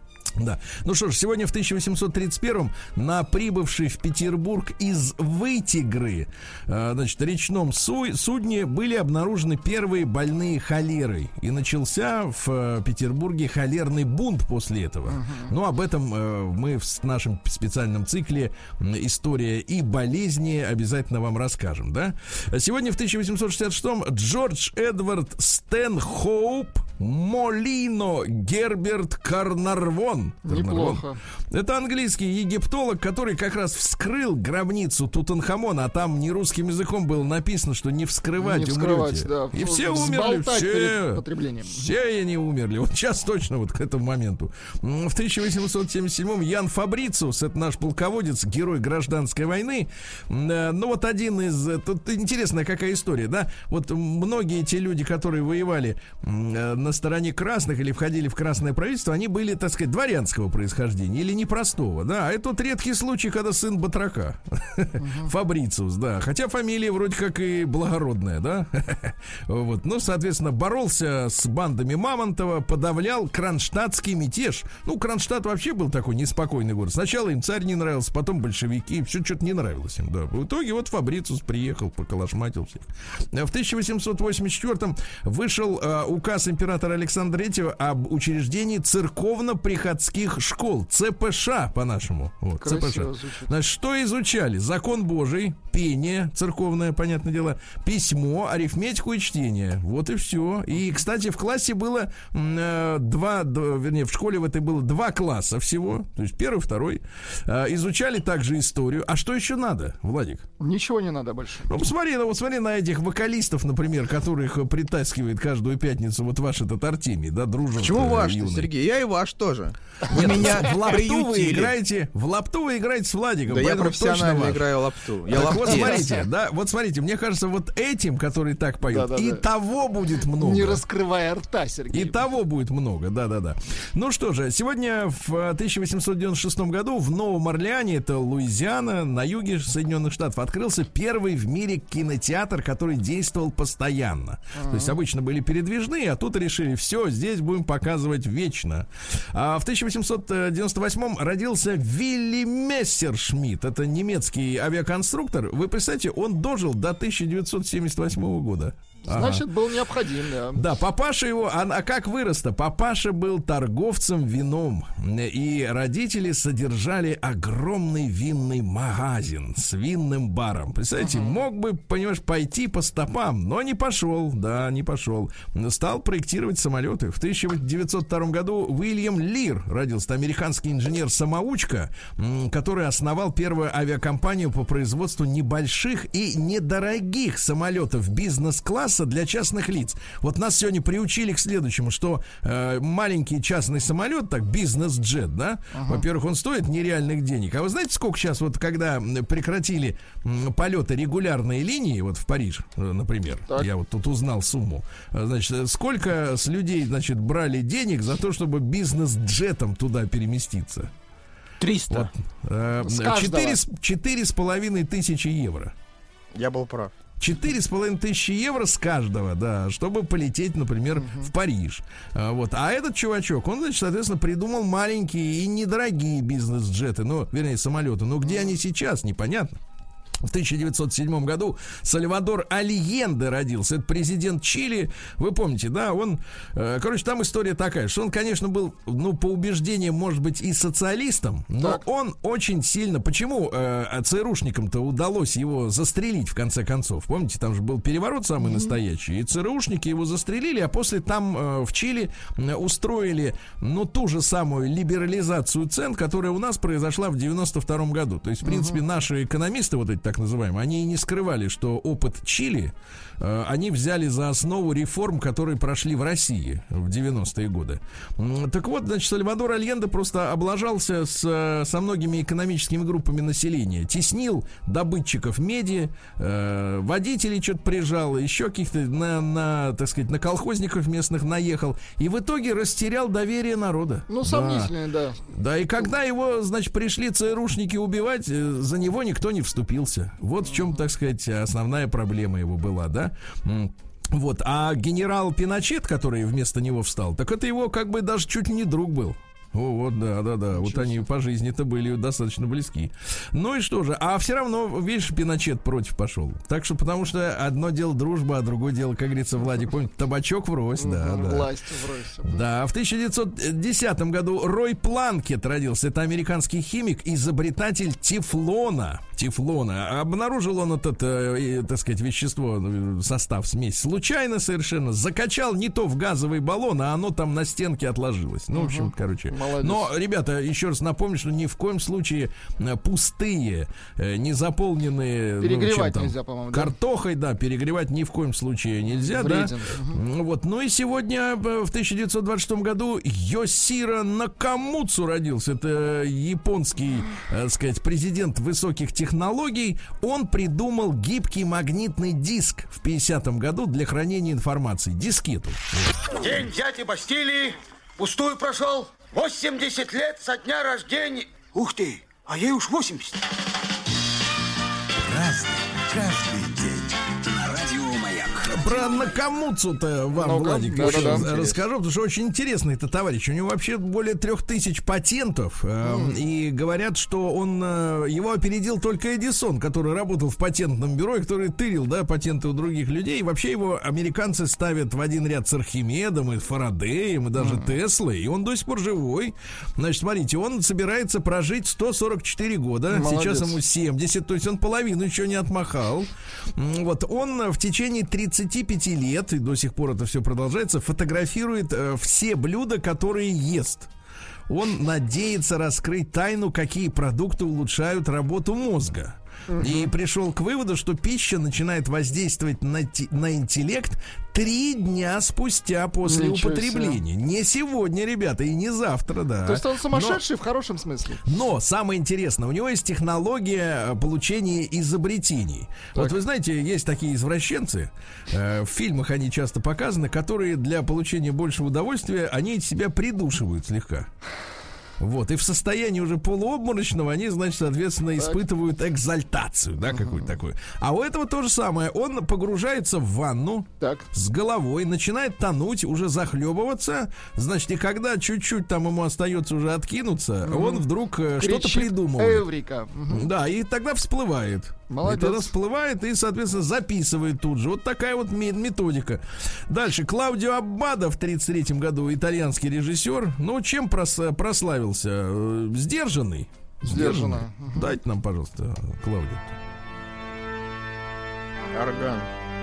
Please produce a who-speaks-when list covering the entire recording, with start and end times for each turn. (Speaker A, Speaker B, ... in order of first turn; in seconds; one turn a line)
Speaker A: 0.4-110.5
Speaker B: 15.1-15.5
Speaker B: 30.4-31.2
Speaker B: 38.4-41.9
Speaker B: 65.0-65.3
Speaker B: 92.6-93.5
Speaker B: 100.8-101.0
Speaker B: 110.6-111.8
Speaker A: 111.7-118.7
Speaker C: 117.8-121.7
Speaker A: 120.1-124.7
Speaker C: 123.5-126.0
Speaker A: 125.3-130.8
Speaker B: 125.4-126.2
Speaker B: 128.9-129.4
Speaker B: 130.4-132.2
Speaker A: 131.9-159.4
Speaker B: 144.5-145.0
Speaker B: 159.1-160.6
Speaker A: 160.6-210.9
Speaker B: 171.0-171.4
Speaker B: 195.7-196.1
Speaker C: 211.6-211.9
Speaker A: 211.9-215.7
Speaker B: 212.8-213.6
Speaker C: 216.3-216.9
Speaker A: 217.2-229.6
Speaker B: 220.9-221.3
Speaker A: 230.2-284.7
Speaker B: 241.6-241.8
Speaker B: 248.4-248.7
Speaker B: 258.4-258.8
Speaker B: 284.1-285.2
Speaker A: 285.3-311.5
Speaker B: 290.5-290.8
Speaker B: 300.5-301.1
Speaker B: 310.8-312.4
Speaker A: 312.3-355.9
Speaker B: 328.5-329.9
Speaker B: 335.4-336.7
Speaker B: 338.9-340.0
Speaker D: 356.1-363.2
Speaker E: 365.1-368.8
Speaker A: 368.4-403.9
Speaker B: 370.1-371.5
Speaker B: 375.8-376.2
Speaker B: 387.4-387.8
Speaker B: 392.9-393.6
Speaker A: 404.5-420.2
Speaker B: 409.5-409.9
Speaker B: 416.0-417.0
Speaker B: 419.4-421.2
Speaker A: 421.3-434.1
Speaker A: 435.0-452.5
Speaker B: 439.9-440.3
Speaker B: 443.8-444.1
Speaker B: 450.4-450.9
Speaker B: 451.4-453.3
Speaker A: 453.1-469.5
Speaker B: 454.9-455.5
Speaker B: 466.9-467.9
Speaker C: 471.7-472.3